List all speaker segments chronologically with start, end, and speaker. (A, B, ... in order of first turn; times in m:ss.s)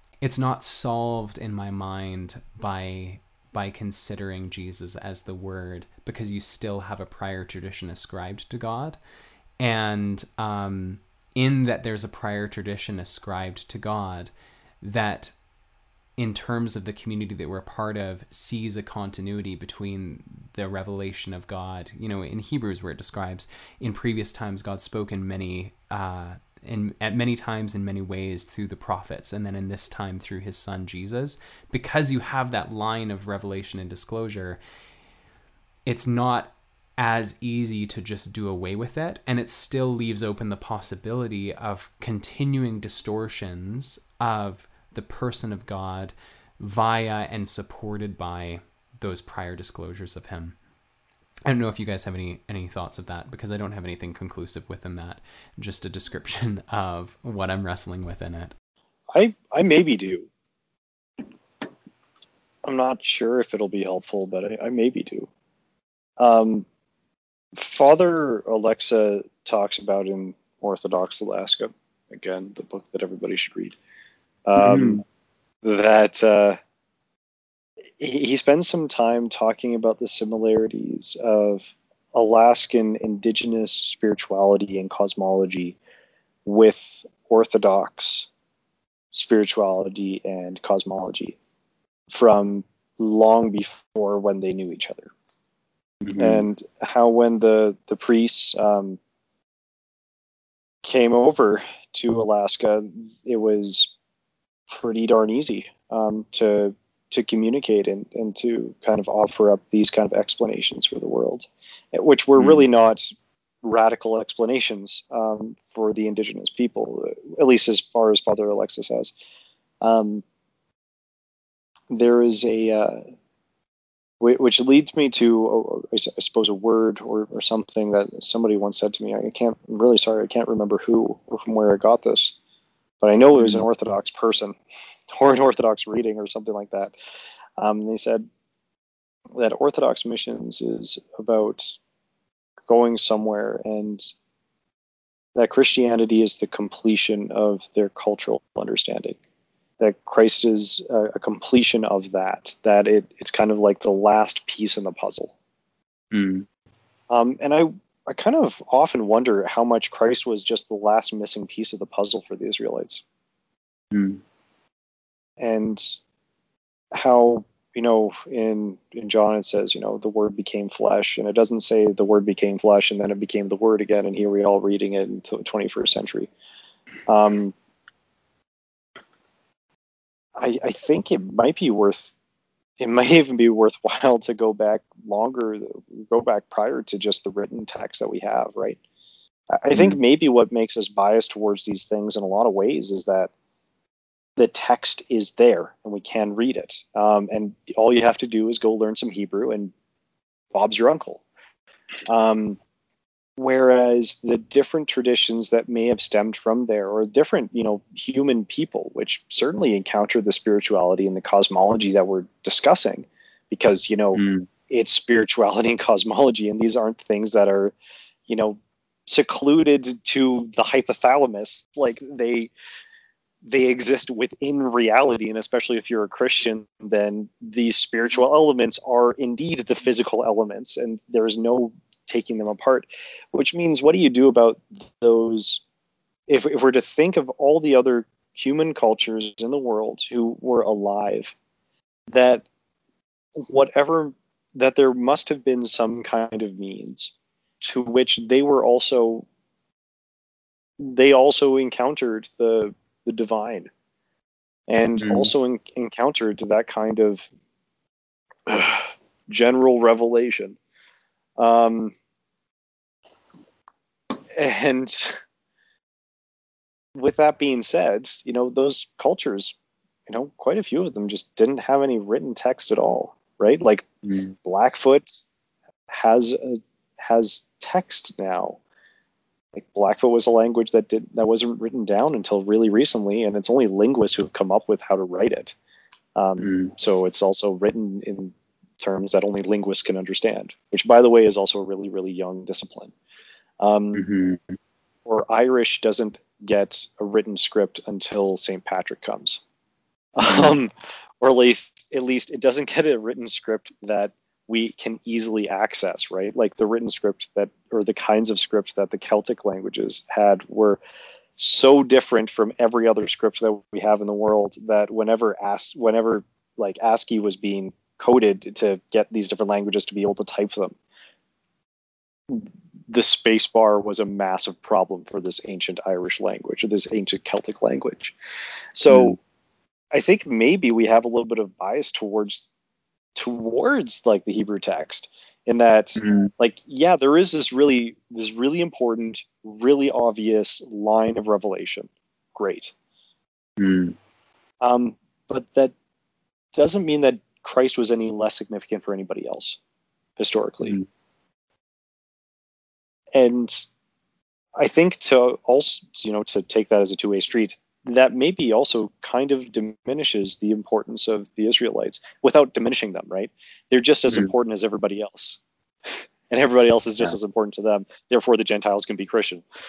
0:00.2-0:09.0 A
0:09.6-0:15.3 A
0:16.2-0:34.6 A
0:35.9-0:50.6 A
0:51.4-0:58.5 A
0:59.1-1:00.3 B
1:02.6-1:05.3 B
1:06.2-1:06.6 B
1:07.5-1:13.8 B
1:14.4-1:15.0 B
1:14.6-1:15.0 C
1:15.6-1:16.6 B
1:18.0-1:25.8 B
1:26.4-1:28.3 B
1:29.1-1:31.4 B
1:32.1-1:35.1 B
1:36.0-1:36.4 C
1:36.2-1:39.0 B
1:40.8-1:43.9 B
1:44.7-1:59.1 B
1:59.8-2:00.2 B
2:01.9-2:03.0 B
2:04.2-2:12.4 B
2:13.0-2:14.6 B
2:15.1-2:16.9 B
2:17.6-2:18.2 B
2:19.3-2:21.8 B
2:22.7-2:24.1 B
2:25.4-2:29.2 B
2:29.8-2:35.3 B
2:36.1-2:36.4 C
2:37.1-2:43.0 B
2:43.9-2:44.2 C
2:45.4-2:46.0 B
2:46.9-2:56.3 B
2:57.1-2:57.5 B
3:00.4-3:02.1 B
3:02.8-3:08.8 B
3:09.5-3:13.3 B
3:09.7-3:10.0 C
3:14.4-3:19.7 B
3:20.5-3:21.2 B
3:22.1-3:22.6 B
3:23.4-3:37.7 B
3:34.1-3:34.5 C
3:38.3-3:42.5 B
3:43.4-3:55.6 B
3:56.3-4:01.3 B
4:02.1-4:02.4 B
4:03.4-4:09.2 B
4:10.8-4:13.7 B
4:14.7-4:17.3 B
4:15.0-4:15.3 C
4:18.5-4:20.6 B
4:21.4-4:21.9 B
4:24.3-4:25.2 B
4:26.9-4:29.6 B
4:30.1-4:33.8 B
4:34.0-4:34.3 C
4:34.4-4:35.2 B
4:35.9-4:38.6 B
4:39.5-4:45.5 B
4:46.1-4:52.9 B
4:46.4-4:46.7 C
4:53.6-4:54.0 B
4:53.9-4:54.6 C
4:55.0-4:59.4 B
5:00.2-5:10.8 B
5:00.2-5:00.5 C
5:11.4-5:20.8 B
5:22.3-5:28.2 B
5:28.7-5:29.2 B
5:28.9-5:29.2 C
5:29.9-5:32.5 B
5:33.1-5:42.7 B
5:36.0-5:36.3 C
5:43.6-5:44.0 C
5:44.6-5:45.7 B
5:46.5-5:49.6 B
5:50.2-5:50.8 B
5:53.1-5:53.7 B
5:54.6-6:05.4 B
6:06.3-6:09.4 B